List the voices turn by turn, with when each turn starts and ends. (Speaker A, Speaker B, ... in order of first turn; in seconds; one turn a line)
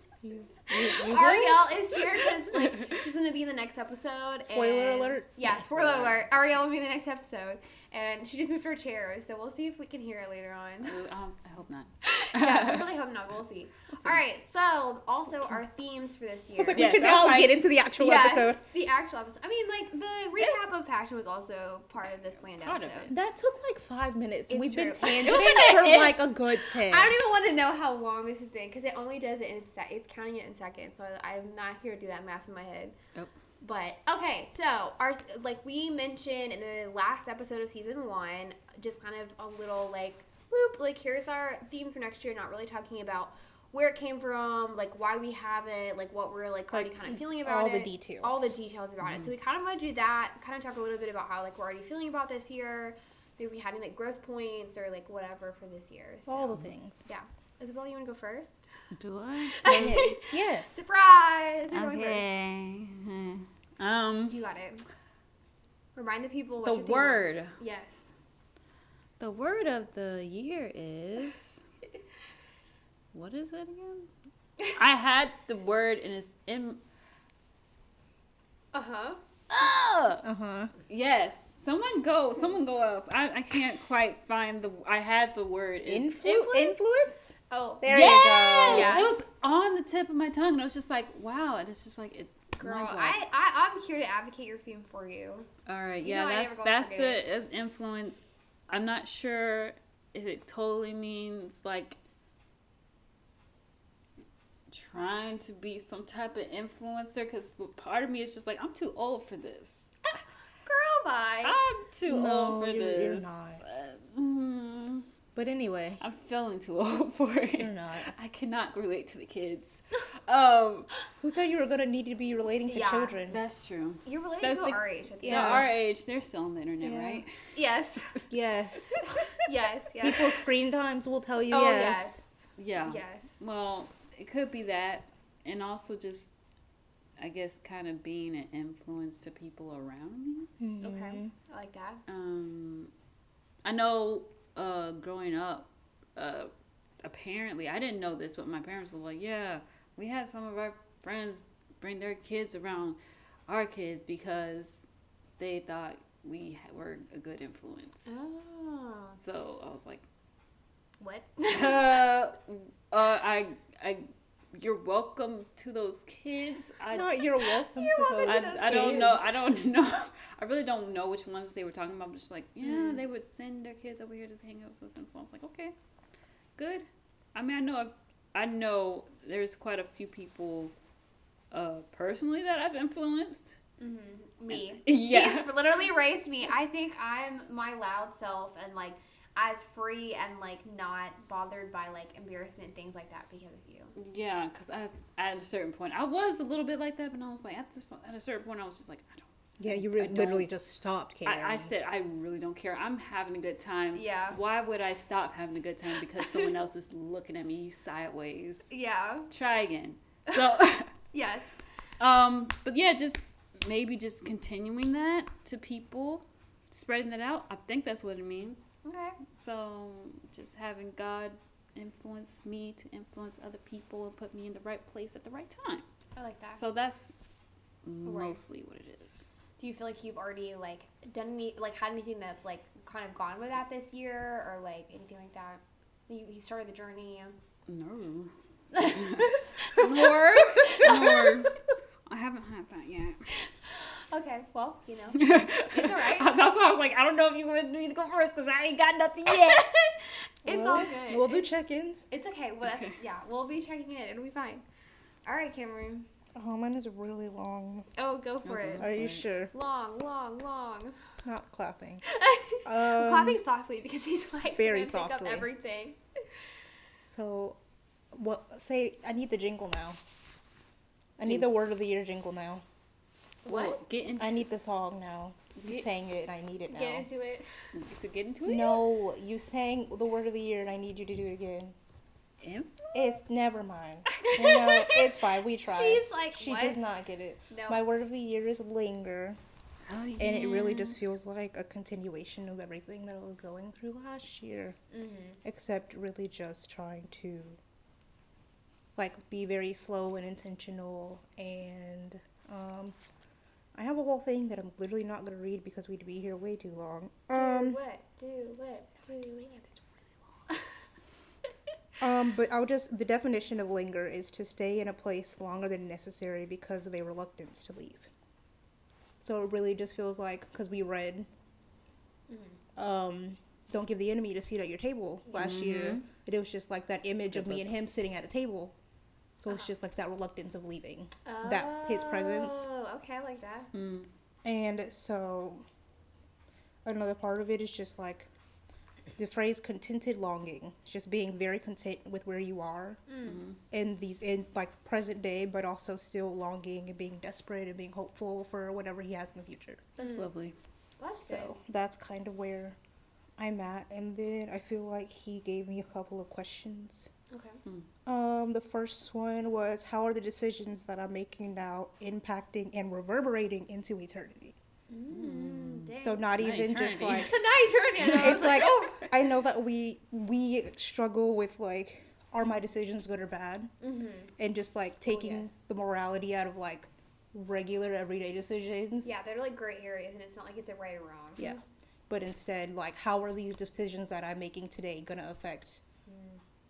Speaker A: 0.2-2.0
Speaker B: 0.7-11.0
Speaker C: 2.5-2.9
Speaker A: 4.4-6.2
Speaker C: 10.8-12.9
Speaker B: 12.1-17.2
Speaker A: 16.6-18.6
Speaker C: 16.8-17.6
Speaker B: 18.0-23.1
Speaker C: 20.4-20.6
Speaker C: 22.4-23.1
Speaker A: 23.1-27.1
Speaker B: 24.5-26.0
Speaker C: 25.2-26.2
Speaker B: 26.9-33.0
Speaker B: 33.6-58.7
Speaker A: 46.7-48.5
Speaker C: 49.0-49.3
Speaker A: 56.3-57.1
Speaker C: 59.0-60.1
Speaker B: 59.5-62.3
Speaker A: 59.6-60.8
Speaker C: 61.7-64.4
Speaker B: 64.3-64.8
Speaker B: 66.0-68.1
Speaker C: 66.6-67.6
Speaker C: 69.2-71.6
Speaker C: 73.1-74.1
Speaker C: 74.7-76.8
Speaker B: 78.7-79.2
Speaker C: 79.5-80.2
Speaker A: 80.2-80.7
Speaker C: 80.9-86.7
Speaker A: 85.9-89.1
Speaker B: 87.5-89.1
Speaker C: 87.9-93.2
Speaker B: 92.6-95.5
Speaker C: 95.7-102.0
Speaker B: 96.0-97.2
Speaker C: 104.7-109.8
Speaker B: 110.7-111.6
Speaker C: 111.4-115.1
Speaker A: 112.1-113.6
Speaker A: 115.3-116.0
Speaker C: 116.0-120.9
Speaker A: 117.6-118.1
Speaker A: 121.2-123.4
Speaker B: 122.7-123.2
Speaker C: 123.3-127.3
Speaker B: 124.0-125.7
Speaker A: 125.2-125.7
Speaker A: 126.8-127.2
Speaker B: 127.5-128.2
Speaker A: 128.3-129.0
Speaker B: 129.0-130.4
Speaker A: 130.0-132.2
Speaker B: 131.5-133.4
Speaker C: 132.6-136.3
Speaker C: 137.2-140.5
Speaker A: 140.6-141.3
Speaker B: 140.8-142.0
Speaker C: 142.1-142.9
Speaker C: 143.6-146.5
Speaker C: 147.0-154.9
Speaker C: 155.4-158.2
Speaker B: 158.1-159.2
Speaker C: 159.2-160.1
Speaker B: 161.0-162.0
Speaker C: 161.5-167.2
Speaker A: 166.9-169.3
Speaker B: 167.7-169.2
Speaker C: 168.2-175.7
Speaker B: 172.6-173.0
Speaker C: 176.6-180.7
Speaker C: 181.5-183.6
Speaker B: 183.8-193.9
Speaker C: 184.5-185.6
Speaker C: 194.0-200.5
Speaker A: 199.6-201.7
Speaker C: 201.2-208.7
Speaker B: 203.9-204.4
Speaker B: 206.2-206.5
Speaker B: 208.7-209.3
Speaker C: 209.3-210.9
Speaker B: 211.1-211.6
Speaker C: 212.0-218.7
Speaker B: 218.8-219.2
Speaker C: 219.3-225.9
Speaker B: 226.2-226.6
Speaker C: 226.6-227.3
Speaker C: 227.8-229.3
Speaker B: 228.1-228.4
Speaker B: 229.6-237.4
Speaker C: 237.7-243.2
Speaker B: 239.6-241.5
Speaker B: 244.1-246.4
Speaker C: 245.1-249.7
Speaker B: 249.3-249.9
Speaker B: 250.4-251.5
Speaker A: 250.4-252.1
Speaker B: 252.1-254.6
Speaker C: 252.6-253.0
Speaker B: 255.2-256.1
Speaker A: 256.4-257.9
Speaker B: 258.0-258.9
Speaker C: 258.4-259.3
Speaker A: 258.8-259.5
Speaker B: 259.5-261.0
Speaker A: 261.2-262.0
Speaker B: 262.1-266.0
Speaker A: 262.6-263.4
Speaker A: 264.5-265.5
Speaker A: 267.1-267.6
Speaker A: 268.1-270.0
Speaker A: 271.2-272.6
Speaker C: 271.2-271.5
Speaker B: 273.4-273.8
Speaker C: 273.4-274.5
Speaker A: 274.2-277.1
Speaker B: 276.7-277.5
Speaker C: 277.7-278.8
Speaker A: 278.5-281.8
Speaker C: 282.4-282.8
Speaker A: 282.9-289.4
Speaker B: 284.1-286.8
Speaker B: 287.5-287.8
Speaker C: 289.9-291.1
Speaker A: 290.2-294.8
Speaker B: 294.9-295.4
Speaker A: 295.4-297.6
Speaker A: 299.0-303.0
Speaker A: 303.8-307.8
Speaker B: 307.3-309.9
Speaker A: 312.0-318.1
Speaker A: 319.2-321.3
Speaker B: 322.3-322.6
Speaker A: 322.8-328.7
Speaker B: 325.3-325.6
Speaker C: 325.4-326.1
Speaker C: 327.3-327.7
Speaker A: 329.4-332.7
Speaker B: 331.2-333.7
Speaker C: 333.7-334.1
Speaker A: 334.4-335.6
Speaker A: 336.8-338.3
Speaker A: 339.2-343.0
Speaker B: 343.1-343.4
Speaker C: 343.2-343.6
Speaker A: 343.7-349.9
Speaker C: 350.0-350.6
Speaker B: 350.0-350.3
Speaker B: 351.0-351.6
Speaker A: 351.2-352.8
Speaker A: 353.4-357.1
Speaker B: 357.3-357.6
Speaker A: 358.1-364.6
Speaker B: 364.9-366.3
Speaker C: 365.1-367.4
Speaker A: 366.0-367.4
Speaker B: 367.0-369.0
Speaker C: 368.0-369.0
Speaker A: 368.0-373.7
Speaker B: 373.8-374.3
Speaker A: 374.4-379.1
Speaker B: 375.1-375.6
Speaker B: 379.0-381.6
Speaker A: 381.4-385.8
Speaker B: 386.1-386.4